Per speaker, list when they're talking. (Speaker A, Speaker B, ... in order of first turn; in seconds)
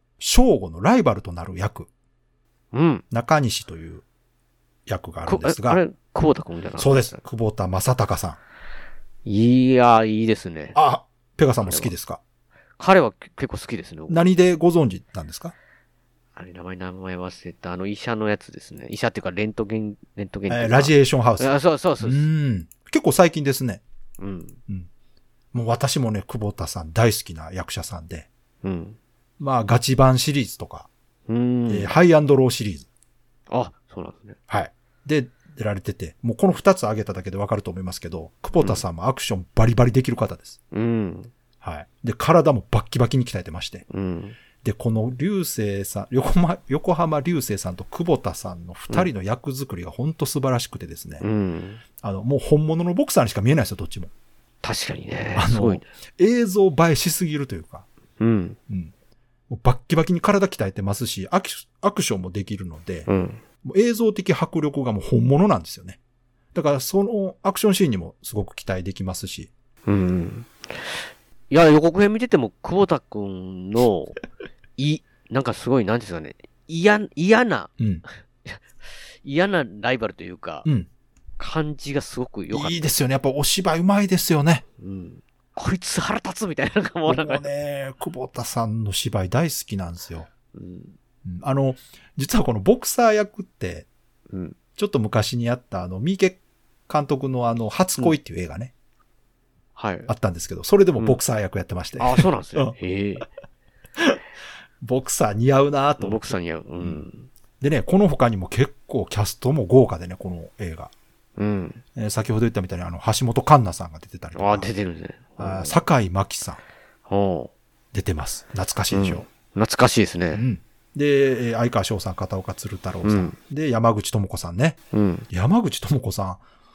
Speaker A: 0.2-1.9, 3.1-4.0, 4.9-5.8, 6.8-8.4, 10.8-12.2, 14.1-15.6, 20.5-23.8, 25.5-28.3, 29.4-30.9, 31.7-32.9, 34.5-40.6, 41.6-43.9, 44.6-51.2, 52.0-54.1, 55.4-57.9, 59.5-63.1, 63.6-66.0, 66.5-69.5, 77.8-78.0, 82.5-84.6, 87.1-90.3, 91.2-93.9, 94.8-98.7, 100.1-102.8, 104.8-107.0, 107.6-110.9, 112.0-114.7, 115.4-116.6, 117.9-119.2, 120.3-124.8, 125.3-126.4
Speaker B: 2.7-3.0, 5.3-7.2, 9.3-10.8, 11.6-11.9, 12.8-14.3, 16.4-22.3, 24.2-24.6, 28.6-29.0, 31.3-31.9, 33.5-34.4, 38.6-38.8, 40.7-41.3, 43.9-44.4, 51.2-51.8, 54.6-55.9, 58.2-58.6, 63.1-63.4, 69.9-74.2, 74.8-77.7, 79.2-80.7, 81.4-82.8, 84.8-87.5, 90.5-91.0, 94.3-94.6, 99.8-100.1, 102.0-103.3, 106.0-107.3, 111.4-111.8, 114.3-115.8, 117.1-117.5, 118.9-120.4, 123.0-123.4, 124.9-125.3